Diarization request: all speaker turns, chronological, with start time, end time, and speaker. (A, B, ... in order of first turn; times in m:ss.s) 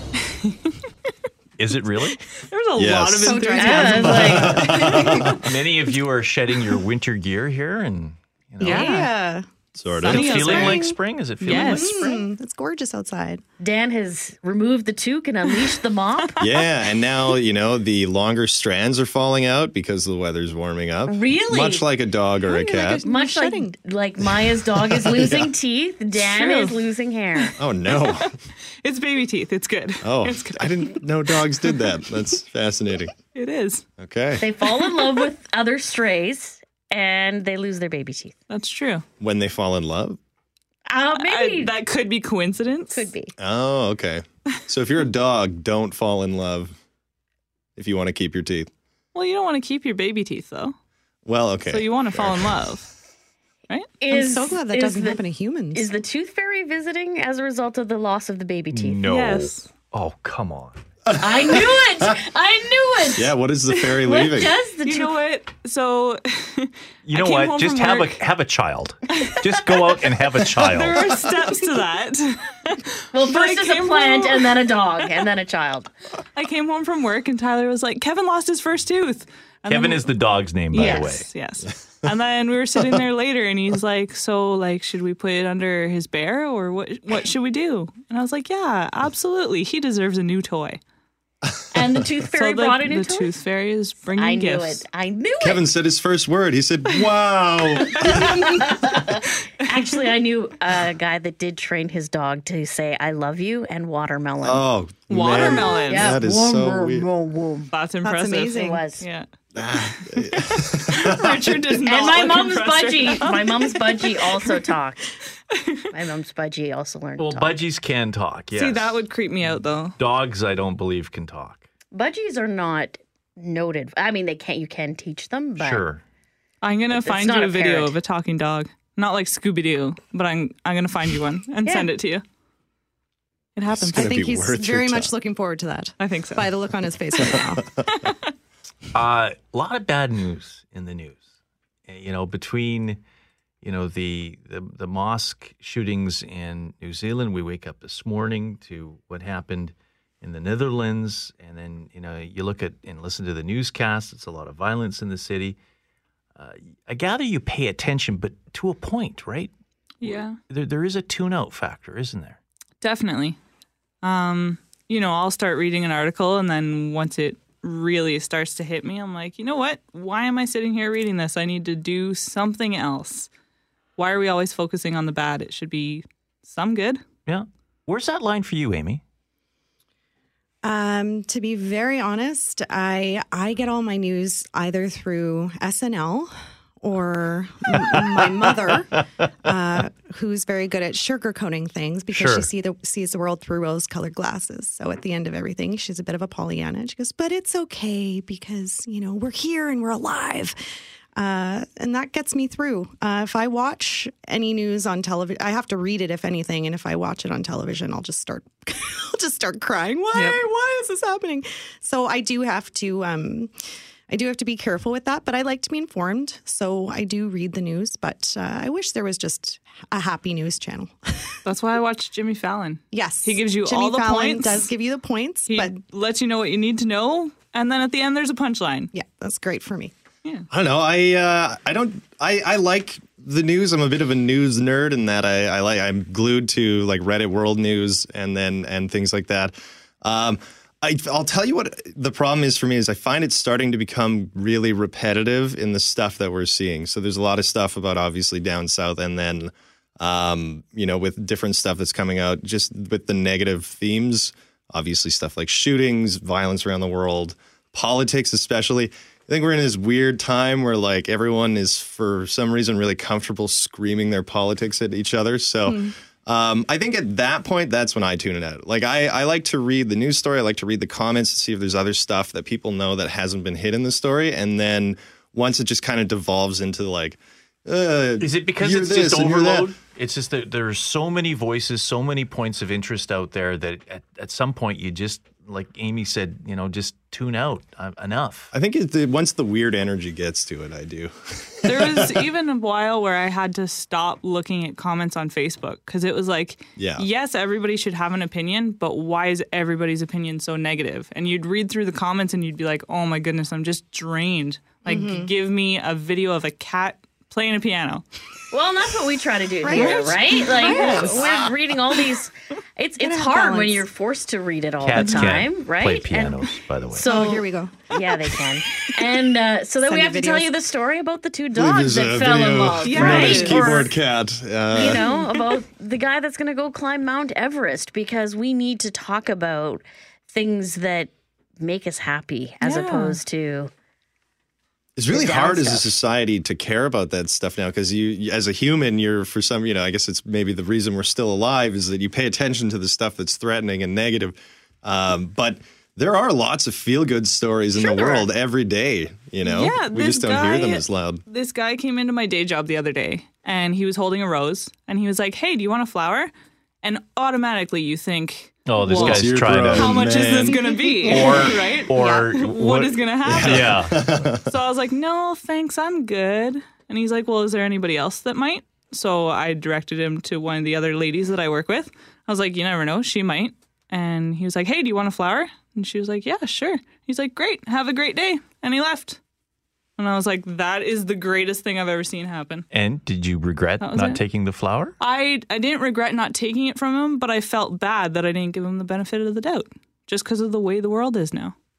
0:00.4-0:00.7 A
0:01.6-0:02.2 B
0:02.4-0:05.4 A
0:02.8-0:03.4 C
0:03.2-0:05.4 D
0:03.5-0:04.7 E
0:04.0-0:05.4 C
0:05.4-0:08.9 B
0:08.6-0:09.1 A
0:08.6-0:09.5 D
0:09.8-0:10.7 C
0:09.9-0:10.9 A
0:10.0-0:12.0 B
0:10.0-0:13.4 D
0:11.4-0:12.2 A
0:13.6-0:16.4 E
0:15.5-0:16.3 A
0:16.4-0:23.0 C
0:21.1-0:21.9 E
0:22.4-0:23.8 D
0:23.0-0:27.6 E
0:24.2-0:25.6 C
0:26.2-0:26.8 A
0:27.4-0:28.3 A
0:27.6-0:28.3 C
0:28.8-0:31.8 A
0:30.0-0:33.1 C
0:33.3-0:33.8 A
0:34.0-0:34.4 C
0:34.4-0:38.4 E
0:38.5-0:39.0 A
0:39.2-0:40.2 C
0:40.9-0:41.7 E
0:41.2-0:43.1 A
0:42.9-0:43.3 E
0:43.4-0:46.7 C
0:47.8-0:48.7 C
0:49.1-0:50.7 A
0:51.3-0:52.7 C
0:51.7-0:52.9 A
0:54.0-0:55.2 E
0:54.1-0:55.9 D
0:55.7-0:59.1 E
0:58.7-1:00.8 B
0:59.1-0:59.7 A
1:01.1-1:02.2 C
1:01.2-1:05.1 E
1:03.1-1:04.6 C
1:04.8-1:08.2 A
1:07.0-1:11.0 B
1:09.1-1:14.6 A
1:13.1-1:15.9 E
1:16.3-1:20.1 A
1:19.7-1:21.3 B
1:20.7-1:21.1 E
1:20.7-1:30.8 A
1:31.7-1:33.3 E
1:32.3-1:34.8 A
1:34.2-1:35.7 E
1:35.4-1:38.4 C
1:37.7-1:44.7 E
1:38.1-1:38.4 A
1:44.4-1:47.1 C
1:45.1-1:46.1 A
1:45.7-1:47.7 E
1:47.7-1:49.2 A
1:48.0-1:48.8 D
1:48.6-1:49.1 E
1:49.6-1:51.6 C
1:49.8-1:54.4 A
1:51.9-1:55.1 E
1:55.9-1:57.6 E
1:57.2-1:59.0 B
1:58.5-2:00.0 A
2:00.0-2:01.6 B
2:01.9-2:05.8 E
2:05.6-2:06.0 B
2:06.6-2:12.2 A
2:06.9-2:08.0 E
2:11.6-2:11.9 E
2:13.6-2:14.1 A
2:13.7-2:15.1 C
2:13.9-2:17.6 D
2:16.0-2:16.5 A
2:17.2-2:18.2 A
2:18.9-2:21.2 B
2:21.9-2:23.0 B
2:23.6-2:35.6 B
2:36.4-2:39.5 B
2:40.0-2:40.4 A
2:40.0-2:42.4 B
2:42.8-2:43.4 A
2:44.0-2:53.3 A
2:54.0-2:57.0 A
2:57.2-2:59.0 B
3:00.6-3:20.6 D
3:12.1-3:12.5 B
3:21.2-3:33.5 D
3:34.1-3:41.4 D
3:41.4-3:44.7 A
3:42.9-3:45.8 D
3:45.5-3:48.9 A
3:48.9-3:49.9 D
3:50.5-4:39.7 C
4:25.6-4:25.9 D
4:38.2-4:48.5 B
4:48.5-4:52.1 C
4:51.6-5:08.0 A
4:56.8-4:57.1 C
5:04.8-5:05.3 D
5:08.5-5:23.9 E
5:09.6-5:11.6 D
5:10.7-5:11.0 A
5:13.0-5:13.9 D
5:14.8-5:17.1 B
5:17.1-5:17.9 D
5:19.8-5:20.5 D
5:21.5-5:25.0 C
5:22.8-5:23.7 A
5:22.9-5:23.8 D
5:24.7-5:33.7 E
5:32.6-5:33.2 A
5:35.0-5:51.2 C
5:35.1-5:35.9 E
5:47.8-5:48.3 A
5:49.4-5:56.3 A
5:56.8-6:19.2 A
5:58.6-6:00.0 B
5:58.9-6:00.6 C
6:00.4-6:01.5 D
6:01.0-6:04.0 B
6:03.2-6:04.4 C
6:20.0-6:22.6 A
6:22.7-6:24.9 B
6:23.8-6:24.2 A
6:25.0-6:31.6 A